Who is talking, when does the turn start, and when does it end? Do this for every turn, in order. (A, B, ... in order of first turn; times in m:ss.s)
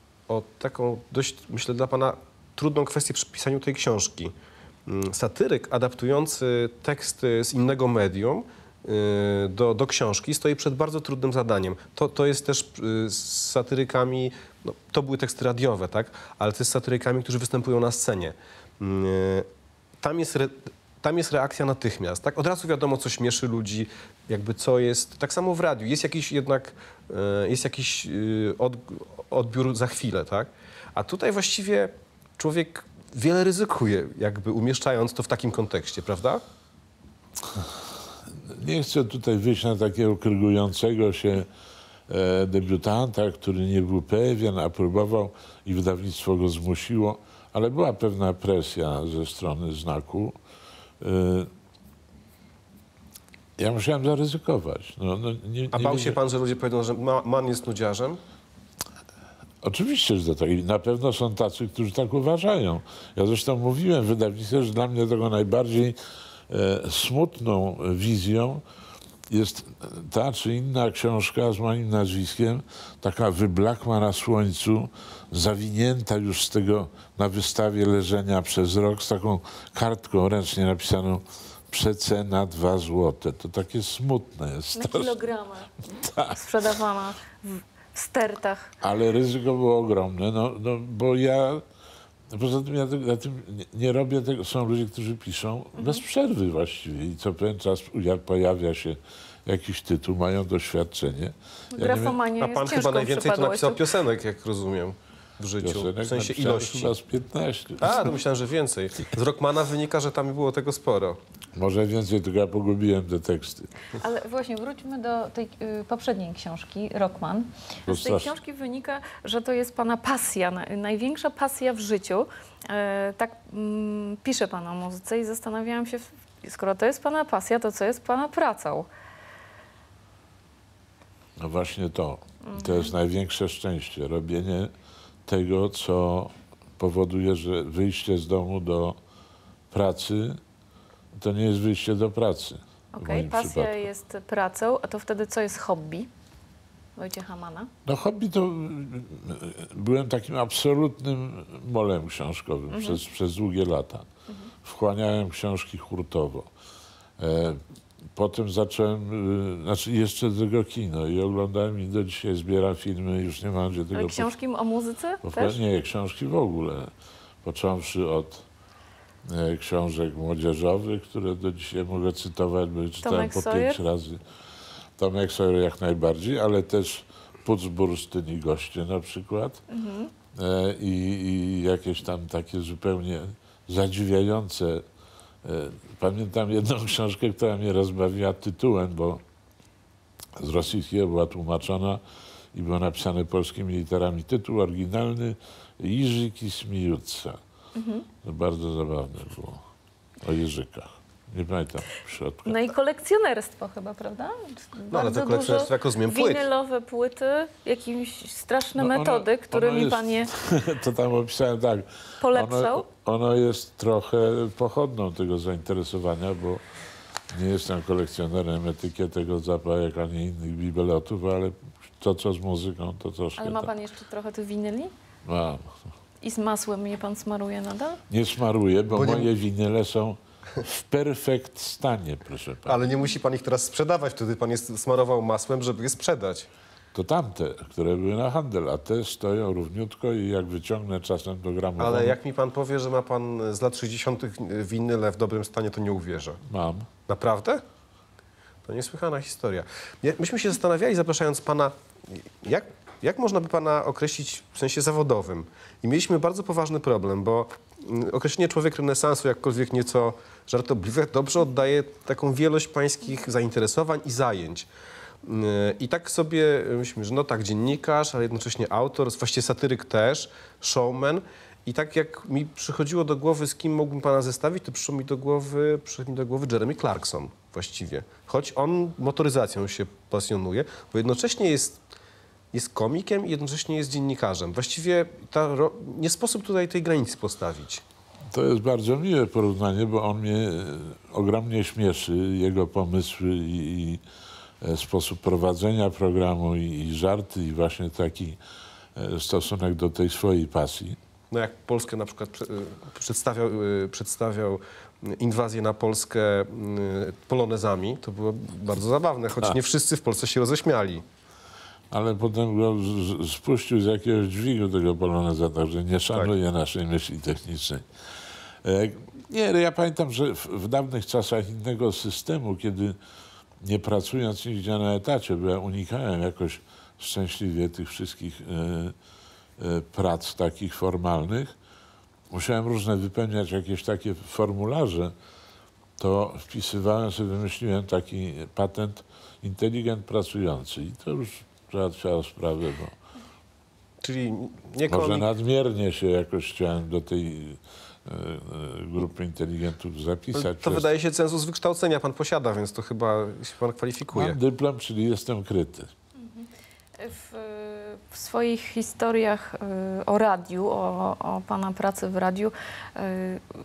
0:00.3-0:04.3 A
0:04.8-0:19.5 A
0:20.0-0:36.4 A
0:38.4-0:41.5 B
0:42.1-0:50.3 B
0:51.0-0:51.5 B
0:53.6-0:56.2 B
0:55.7-0:58.2 A
0:59.6-1:06.0 B
1:06.5-1:08.6 B
1:09.3-1:25.2 B
1:24.8-1:28.7 C
1:25.9-1:26.4 B
1:28.8-1:31.6 B
1:32.3-1:42.2 B
1:41.7-1:43.8 C
1:42.4-1:47.0 A
1:45.6-1:48.1 B
1:47.8-1:51.2 A
1:51.6-1:53.8 B
1:54.0-2:08.9 C
1:57.9-1:58.3 B
2:11.4-2:14.7 B
2:12.4-2:12.9 C
2:15.2-2:19.0 B
2:19.7-2:20.4 B
2:21.2-2:23.8 B
2:22.9-2:26.1 C
2:27.0-2:27.7 C
2:27.8-2:34.1 B
2:32.7-2:33.0 C
2:34.6-2:36.5 B
2:37.2-2:37.6 B
2:38.2-2:44.3 B
2:43.9-2:45.6 C
2:45.2-2:46.9 B
2:47.4-2:48.4 B
2:49.3-2:54.2 B
2:53.0-2:53.8 C
2:55.0-2:59.6 B
2:59.7-3:00.1 C
3:00.3-3:04.8 B
3:05.4-3:09.2 B
3:10.4-3:12.0 B
3:12.5-3:17.4 B
3:17.8-3:18.1 C
3:18.2-3:19.6 B
3:20.2-3:22.6 B
3:22.5-3:30.3 C
3:24.9-3:26.5 A
3:28.8-3:36.6 B
3:32.2-3:32.8 C
3:37.3-3:43.7 B
3:43.4-3:44.9 C
3:45.2-3:45.7 B
3:46.2-3:48.0 C
3:48.1-3:52.8 B
3:48.9-3:49.3 A
3:52.7-3:56.5 A
3:56.9-4:02.2 B
4:01.8-4:06.4 A
4:06.5-4:06.9 B
4:07.1-4:07.6 A
4:08.6-4:24.7 A
4:25.2-4:41.8 A
4:42.5-4:47.8 A
4:48.3-4:54.0 B
4:54.6-4:58.4 B
4:59.0-5:01.0 B
5:01.3-5:11.0 A
5:11.9-5:17.8 B
5:18.6-5:23.0 B
5:23.6-5:28.9 B
5:29.6-5:31.5 B
5:32.3-5:35.1 B
5:36.0-5:43.0 B
5:44.0-5:45.3 A
5:44.9-5:50.9 B
5:50.3-5:54.4 A
5:54.1-5:55.9 B
5:56.2-5:56.5 C
5:57.0-6:03.4 C